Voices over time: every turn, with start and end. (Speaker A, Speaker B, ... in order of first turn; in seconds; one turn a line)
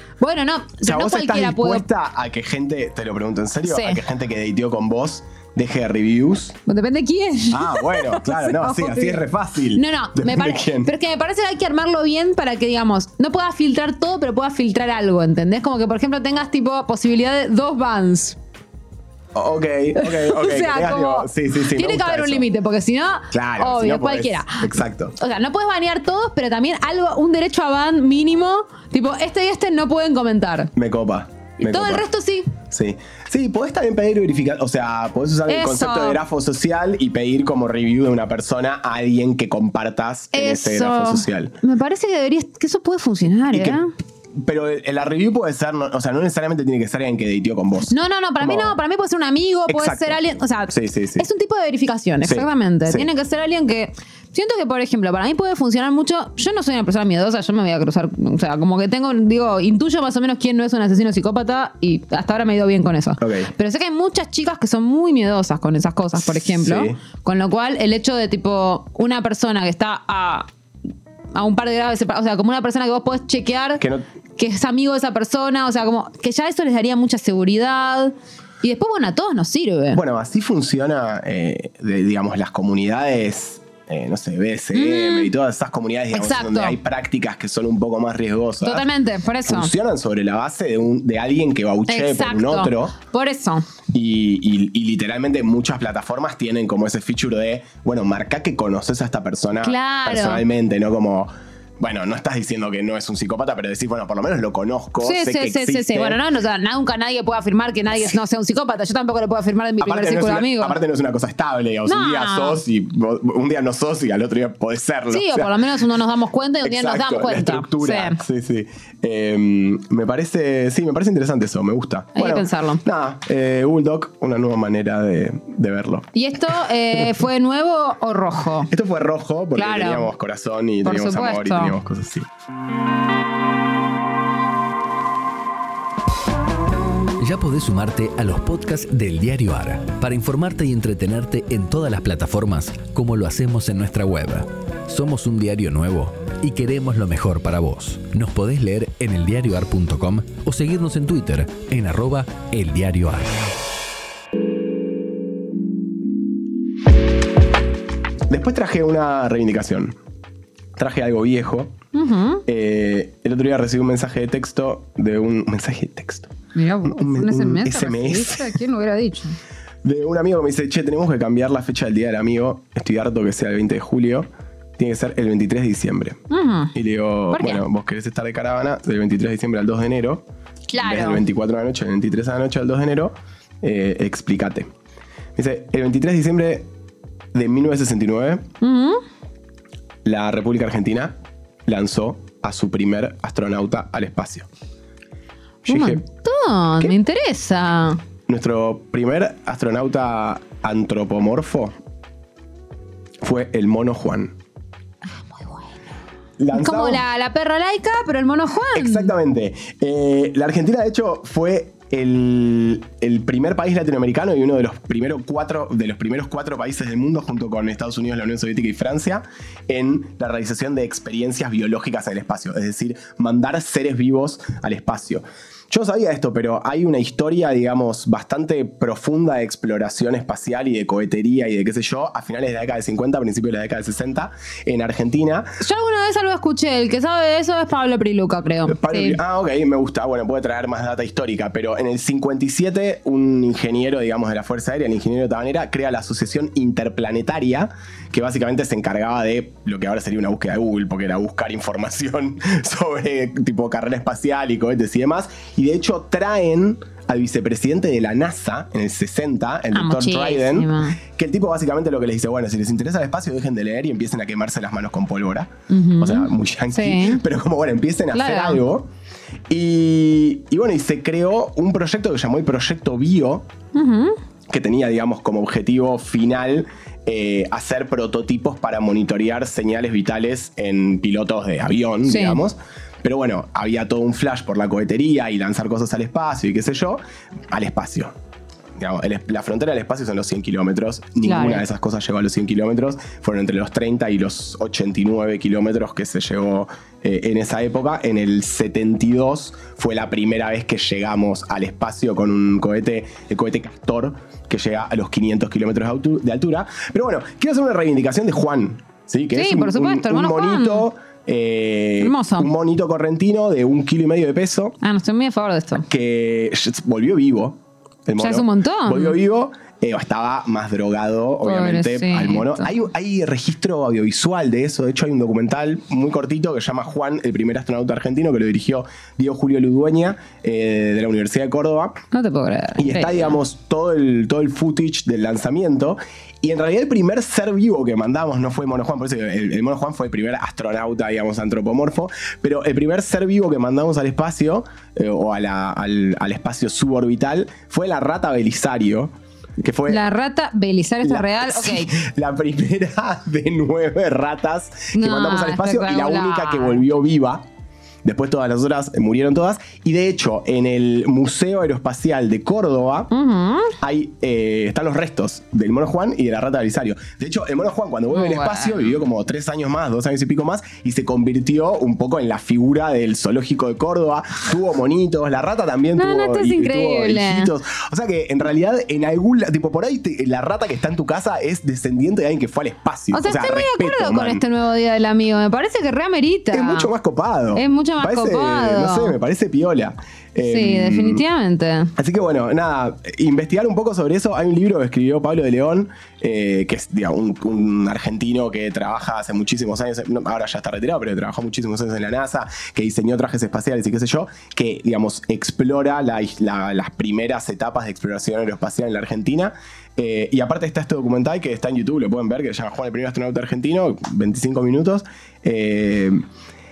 Speaker A: 0.2-1.9
Speaker B: 0.8-6.6
Speaker A: 3.6-4.0
Speaker A: 6.7-9.2
Speaker B: 7.5-10.9
Speaker A: 9.7-18.4
Speaker B: 19.4-22.5
Speaker A: 20.0-30.7
Speaker B: 23.3-25.1
Speaker B: 30.8-41.6
Speaker A: 31.6-32.5
Speaker A: 35.5-36.2
Speaker A: 40.3-43.9
Speaker B: 43.5-43.8
Speaker B: 44.4-48.8
Speaker A: 47.9-70.5
Speaker B: 49.7-50.2
Speaker B: 50.7-51.3
Speaker B: 52.2-53.1
Speaker B: 63.2-63.5
Speaker B: 66.2-67.0
Speaker A: 71.3-73.8
Speaker A: 74.4-80.0
Speaker B: 79.9-88.9
Speaker A: 84.7-85.3
Speaker A: 86.1-86.8
Speaker A: 88.6-89.7
Speaker B: 89.5-93.0
Speaker A: 91.9-93.7
Speaker B: 93.9-106.2
Speaker A: 99.6-100.4
Speaker A: 105.0-110.8
Speaker B: 109.8-115.6
Speaker A: 111.9-112.6
Speaker A: 115.1-118.2
Speaker B: 116.6-126.1
Speaker A: 122.2-122.8
Speaker A: 126.1-128.7
Speaker B: 128.7-132.3
Speaker A: 129.6-130.1
Speaker A: 130.8-131.8
Speaker C: 137.2-153.5
Speaker B: 158.3-160.0
Speaker B: 160.8-161.8
Speaker A: 161.9-162.4
Speaker B: 162.5-166.3
Speaker A: 166.6-169.4
Speaker B: 166.8-168.6
Speaker B: 169.8-176.2
Speaker A: 176.3-176.7
Speaker B: 176.7-180.3
Speaker A: 177.3-177.7
Speaker A: 180.7-181.2
Speaker B: 180.8-184.7
Speaker B: 185.4-186.7
Speaker B: 187.3-188.5
Speaker A: 188.6-189.0
Speaker B: 190.1-194.5
Speaker A: 195.7-198.0
Speaker B: 195.7-196.0
Speaker B: 198.3-201.8
Speaker B: 203.2-204.4
Speaker A: 205.3-205.7
Speaker B: 206.4-207.0
Speaker A: 206.5-209.1
Speaker B: 208.8-235.6
Speaker A: 235.6-239.2
Speaker B: 238.7-268.9
Speaker A: 259.7-261.0
Speaker A: 265.7-267.2
Speaker A: 268.1-268.6
Speaker B: 269.5-273.5
Speaker A: 273.7-274.2
Speaker B: 274.5-288.1
Speaker A: 282.1-282.4
Speaker B: 288.8-314.8
Speaker A: 291.2-291.6
Speaker A: 309.3-310.9
Speaker A: 312.0-312.5
Speaker A: 314.8-315.9
Speaker B: 315.9-332.0
Speaker A: 318.2-319.2
Speaker A: 321.4-322.7
Speaker A: 332.1-333.4
Speaker B: 332.8-350.1
Speaker A: 349.9-351.9
Speaker B: 351.0-357.4
Speaker A: 354.9-356.8
Speaker B: 358.0-363.1
Speaker A: 363.1-363.8
Speaker B: 363.8-384.4
Speaker A: 368.1-368.9
Speaker A: 376.0-377.5
Speaker A: 383.1-386.9
Speaker B: 386.5-391.2
Speaker A: 387.5-389.2
Speaker A: 390.4-391.9
Speaker B: 392.0-416.2